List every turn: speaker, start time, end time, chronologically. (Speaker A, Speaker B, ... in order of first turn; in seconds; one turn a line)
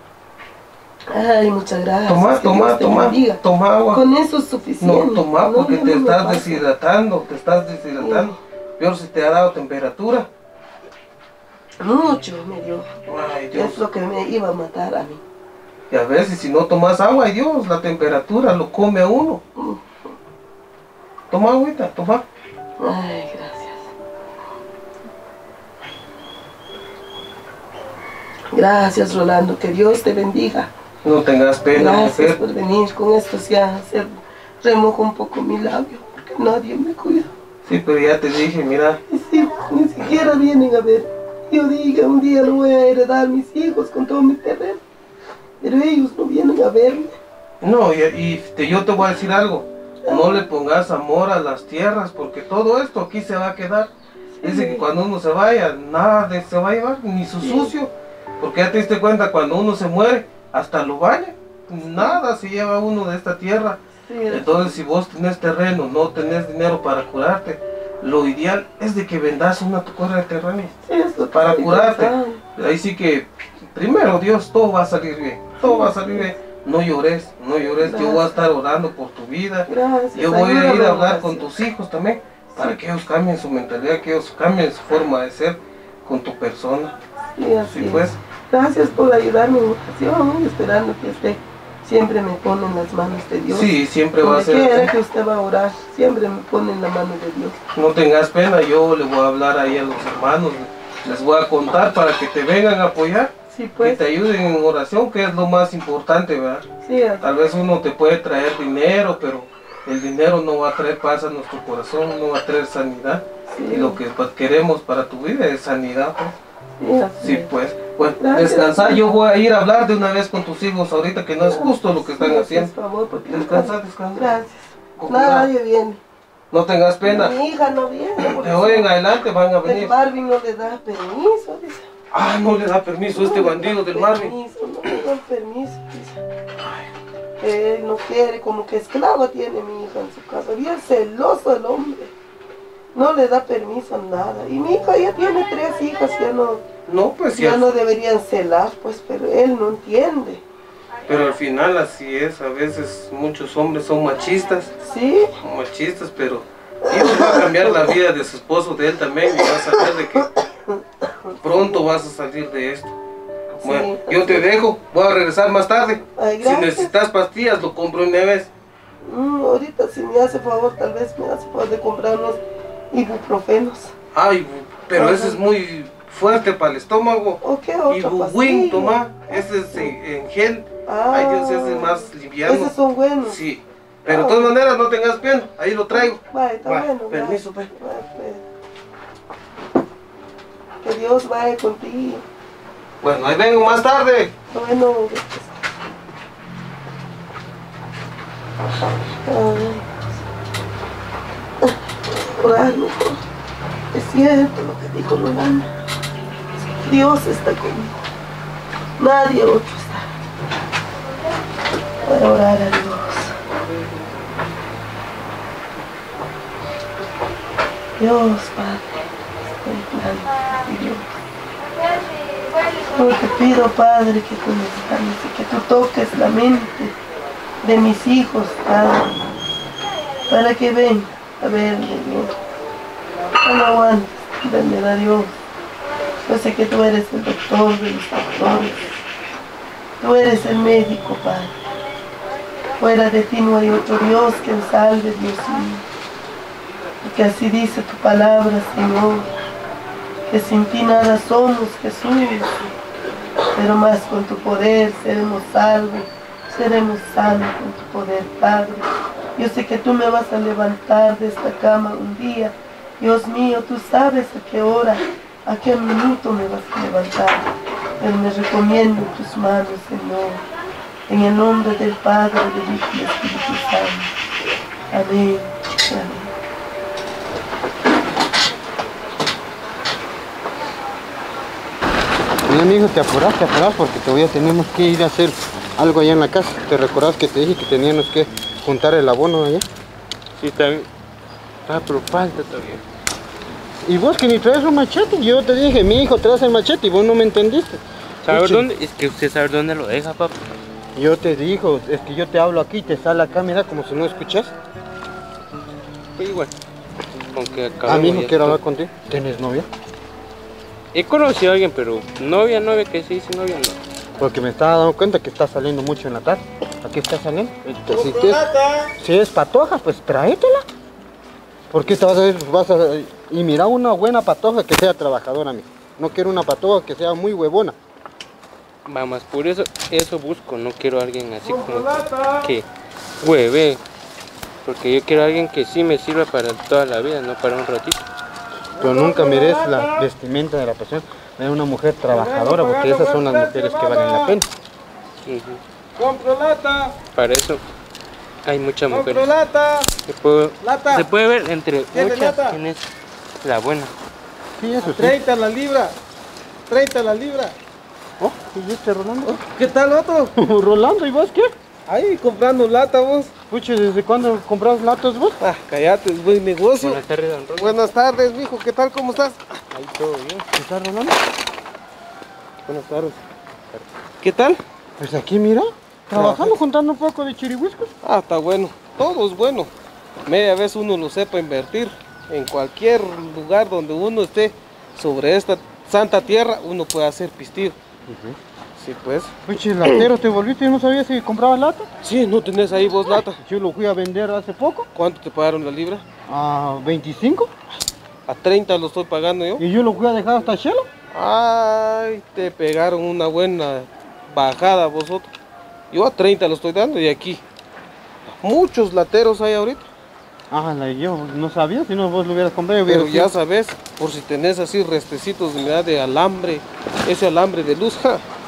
Speaker A: 1.1-3.4
Speaker B: 2.1-4.0
Speaker A: 3.9-6.6
Speaker B: 4.8-10.3
Speaker A: 8.0-8.4
Speaker A: 11.8-12.9
Speaker B: 13.1-13.8
Speaker A: 13.5-15.2
Speaker B: 15.9-19.4
Speaker B: 21.3-22.2
Speaker A: 22.8-23.9
Speaker A: 28.5-30.7
Speaker B: 31.0-32.4
Speaker A: 31.7-37.3
Speaker B: 37.7-39.0
Speaker A: 39.1-44.8
Speaker A: 45.6-47.2
Speaker B: 47.6-53.9
Speaker A: 50.0-50.4
Speaker A: 54.4-54.9
Speaker B: 54.4-63.8
Speaker A: 57.4-57.7
Speaker A: 64.0-64.8
Speaker B: 64.3-70.8
Speaker A: 70.8-72.4
Speaker B: 71.3-87.0
Speaker A: 75.6-76.3
Speaker A: 77.8-78.2
Speaker A: 79.7-81.5
Speaker A: 87.4-97.6
Speaker B: 87.7-88.2
Speaker B: 93.5-94.9
Speaker B: 97.7-106.7
Speaker A: 103.5-104.0
Speaker A: 106.8-107.2
Speaker B: 107.2-116.3
Speaker A: 113.5-114.0
Speaker A: 116.8-117.5
Speaker B: 117.2-122.7
Speaker A: 118.2-119.0
Speaker A: 121.4-126.0
Speaker B: 123.3-124.3
Speaker B: 125.0-125.5
Speaker B: 126.5-127.3
Speaker A: 127.0-128.9
Speaker B: 128.2-129.9
Speaker A: 129.7-131.9
Speaker B: 132.1-134.3
Speaker A: 133.1-136.2
Speaker A: 137.4-142.1
Speaker A: 142.9-146.6
Speaker B: 146.9-147.7
Speaker A: 147.4-150.4
Speaker B: 151.1-154.7
Speaker A: 154.8-155.3
Speaker B: 155.4-160.3
Speaker A: 156.9-157.9
Speaker A: 160.7-161.3
Speaker B: 161.4-162.9
Speaker A: 163.6-164.5
Speaker B: 163.6-168.5
Speaker A: 166.2-166.9
Speaker A: 169.0-173.9
Speaker B: 174.1-187.7
Speaker A: 175.0-175.4
Speaker A: 177.4-179.9
Speaker A: 180.9-183.4
Speaker A: 184.1-184.5
Speaker A: 185.9-188.4
Speaker A: 190.8-192.2
Speaker B: 193.0-194.3
Speaker A: 194.5-195.6
Speaker A: 199.2-200.1
Speaker A: 202.4-203.2
Speaker A: 203.9-205.7
Speaker A: 206.6-207.9
Speaker A: 209.0-210.1
Speaker A: 212.0-213.4
Speaker A: 218.0-221.1
Speaker A: 222.9-226.9
Speaker A: 227.6-229.2
Speaker A: 230.3-232.3
Speaker A: 233.4-235.4
Speaker A: 236.2-239.0
Speaker A: 240.0-241.6
Speaker A: 242.8-245.8
Speaker A: 247.0-249.3
Speaker A: 250.3-252.7
Speaker A: 253.5-267.5
Speaker A: 268.0-270.4
Speaker A: 271.1-274.1
Speaker A: 274.9-276.3
Speaker C: 282.5-289.6
Speaker D: 290.4-290.9
Speaker D: 291.7-292.8
Speaker C: 293.9-298.7
Speaker D: 298.2-300.4
Speaker C: 301.0-304.5
Speaker D: 306.1-306.5
Speaker D: 307.2-308.6
Speaker C: 307.9-309.7
Speaker D: 310.9-313.8
Speaker C: 314.2-318.4
Speaker D: 317.7-318.4
Speaker B: 318.2-318.8
Speaker C: 319.0-320.6
Speaker C: 321.7-327.8
Speaker D: 328.9-332.7
Speaker B: 331.7-332.4
Speaker D: 333.2-333.8
Speaker D: 334.6-338.0
Speaker B: 338.8-340.1
Speaker C: 338.8-344.4
Speaker B: 342.1-344.4
Speaker D: 345.3-345.6
Speaker B: 346.0-347.0
Speaker D: 347.1-347.6
Speaker D: 348.5-349.3
Speaker B: 348.9-349.9
Speaker D: 350.1-352.9
Speaker B: 350.6-351.1
Speaker B: 351.9-352.6
Speaker D: 353.4-353.9
Speaker C: 354.6-355.2
Speaker B: 354.8-355.9
Speaker B: 356.7-357.6
Speaker C: 358.2-359.4
Speaker B: 359.2-360.4
Speaker C: 360.4-361.5
Speaker B: 361.9-363.3
Speaker C: 363.5-365.4
Speaker B: 365.4-367.0
Speaker D: 366.8-367.8
Speaker B: 367.6-369.6
Speaker D: 369.7-370.5
Speaker C: 370.5-371.2
Speaker B: 372.7-373.2
Speaker B: 374.2-374.6
Speaker C: 375.0-377.9
Speaker B: 376.1-376.6
Speaker B: 378.0-379.7
Speaker B: 380.3-387.8
Speaker C: 388.1-388.4
Speaker B: 388.8-389.3
Speaker C: 389.5-391.9
Speaker B: 392.0-393.4
Speaker C: 393.4-394.9
Speaker B: 394.9-396.0
Speaker C: 396.3-397.5
Speaker B: 398.3-399.6
Speaker C: 399.6-400.9
Speaker B: 401.1-405.3
Speaker B: 405.9-407.4
Speaker B: 408.4-409.9
Speaker C: 410.5-413.3
Speaker B: 412.9-418.2